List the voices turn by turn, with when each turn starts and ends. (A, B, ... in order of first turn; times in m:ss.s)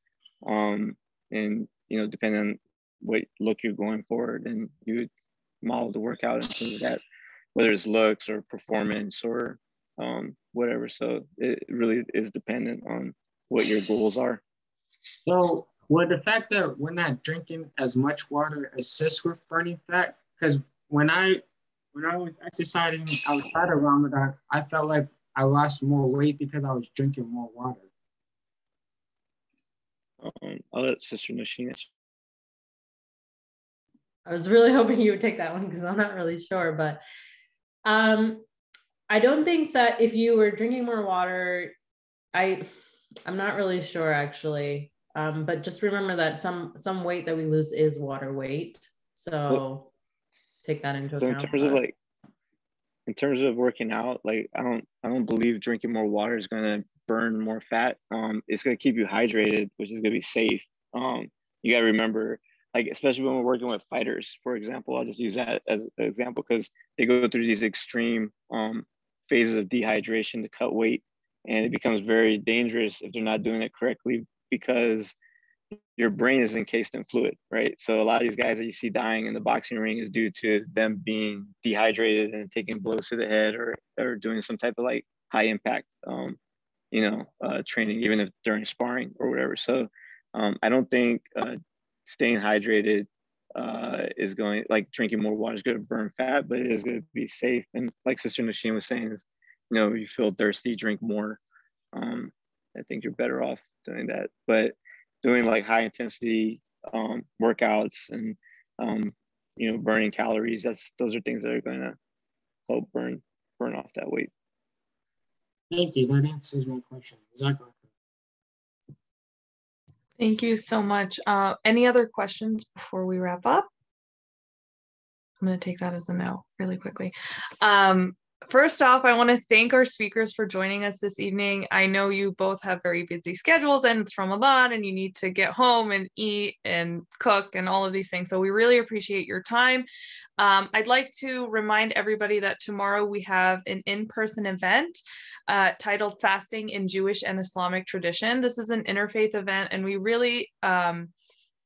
0:00.4-0:05.1 A
0:05.6-0:07.0 A
0:07.6-0:14.4 A
0:15.3-0:21.4 B
0:21.9-0:27.9 B
0:30.2-0:31.9 A
0:34.3-0:37.0 C
0:37.8-0:38.4 C
0:39.1-0:41.7 C
0:42.3-0:42.7 C
0:43.3-0:49.9 C
0:50.6-0:51.8 C
0:51.2-0:52.0 A
0:53.1-1:15.2 A
1:16.0-1:26.4 A
1:26.9-1:41.4 A
1:41.9-1:52.0 A
1:52.7-1:54.3 A
1:55.7-1:57.8 B
2:00.2-2:03.7 D
2:05.4-2:19.9 D
2:20.4-2:31.1 D